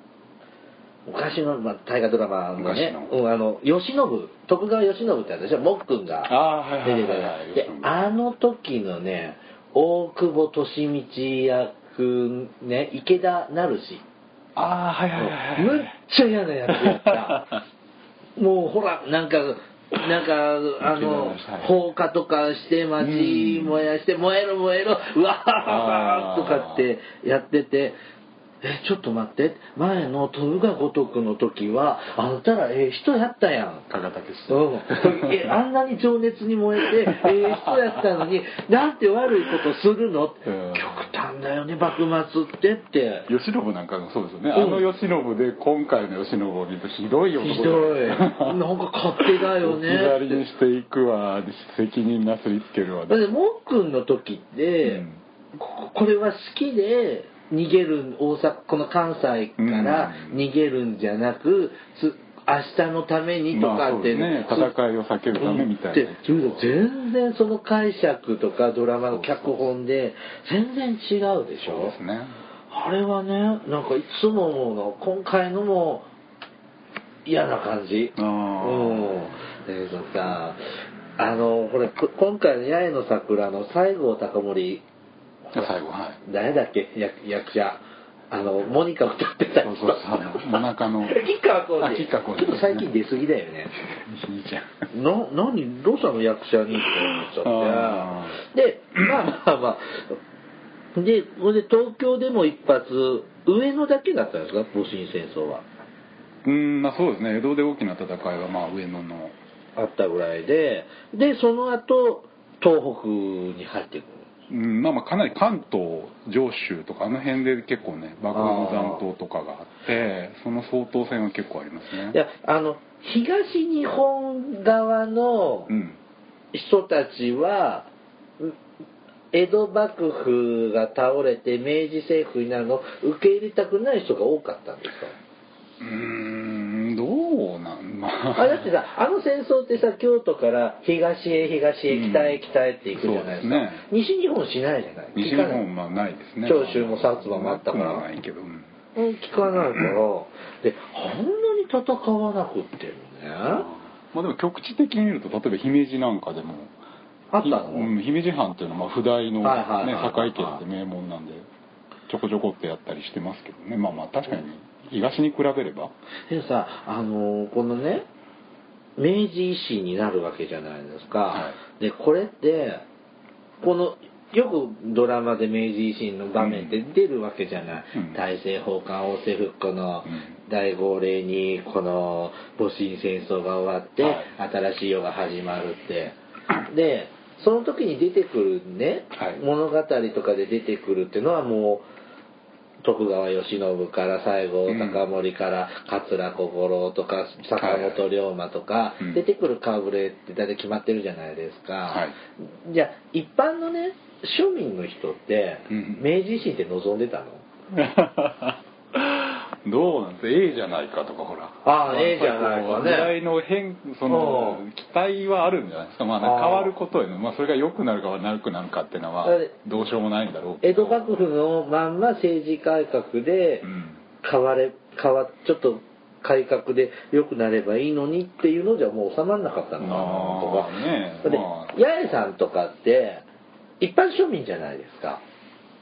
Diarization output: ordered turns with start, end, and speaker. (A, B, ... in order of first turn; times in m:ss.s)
0:01.0-0:14.0 A
0:02.6-0:03.1 B
0:06.3-0:07.9 B
0:14.6-0:15.9 B
0:15.1-0:17.4 A
0:16.7-0:17.6 B
0:18.4-0:28.0 A
0:20.8-0:21.7 B
0:23.0-0:23.8 B
0:25.6-0:26.8 B
0:28.6-0:33.8 A
0:33.9-0:35.5 B
0:34.5-0:43.3 A
0:36.8-0:38.2 B
0:40.4-0:41.0 B
0:43.3-0:48.6 B
0:44.5-0:44.8 A
0:47.4-0:50.4 A
0:49.2-0:53.3 B
0:53.1-0:55.0 A
0:54.8-0:55.2 B
0:55.5-1:04.7 A
0:59.6-1:00.4 B
1:03.5-1:06.7 B
1:05.3-1:11.9 A
1:09.1-1:09.7 B
1:11.6-1:12.4 B
1:12.7-1:16.1 A
1:17.2-1:20.6 A
1:18.2-1:19.4 B
1:21.2-1:24.8 A
1:25.5-1:26.2 B
1:26.2-1:33.7 A
1:29.6-1:31.3 B
1:31.8-1:32.9 B
1:34.0-1:34.7 B
1:34.9-1:40.2 A
1:36.8-1:38.4 B
1:39.0-1:39.3 B
1:40.9-1:45.6 A
1:46.4-1:49.3 B
1:49.8-1:54.2 A
1:54.5-2:02.2 B
1:58.3-1:59.0 A
2:02.1-2:05.7 A
2:05.7-2:06.0 B
2:06.5-2:07.9 A
2:09.3-2:15.1 A
2:15.8-2:18.7 B
2:18.3-2:25.6 A
2:21.9-2:22.4 B
2:22.9-2:23.8 B
2:25.1-2:28.7 B
2:26.4-2:28.0 A
2:29.0-2:33.7 A
2:29.4-2:30.0 B
2:33.5-2:36.7 B
2:37.3-2:37.9 A
2:37.4-2:41.5 B
2:39.4-2:40.6 A
2:42.1-2:45.9 B
2:46.3-2:48.0 A
2:49.0-2:52.8 A
2:51.3-2:51.6 B
2:53.6-3:06.2 A
2:56.4-2:56.8 B
2:57.9-2:58.2 B
3:00.0-3:00.3 B
3:04.0-3:04.3 B
3:06.7-3:11.8 A
3:09.1-3:09.4 B
3:12.8-3:27.4 A
3:14.7-3:15.0 B
3:17.6-3:18.0 B
3:21.9-3:22.2 B
3:25.7-3:26.0 B
3:27.7-3:41.1 B
3:31.6-3:33.1 A
3:34.1-3:34.6 A
3:36.2-3:36.7 A
3:39.2-3:39.5 A
3:40.6-3:43.7 A
3:43.6-3:44.0 B
3:44.2-3:53.2 A
3:49.8-3:51.8 B
3:53.8-3:55.2 A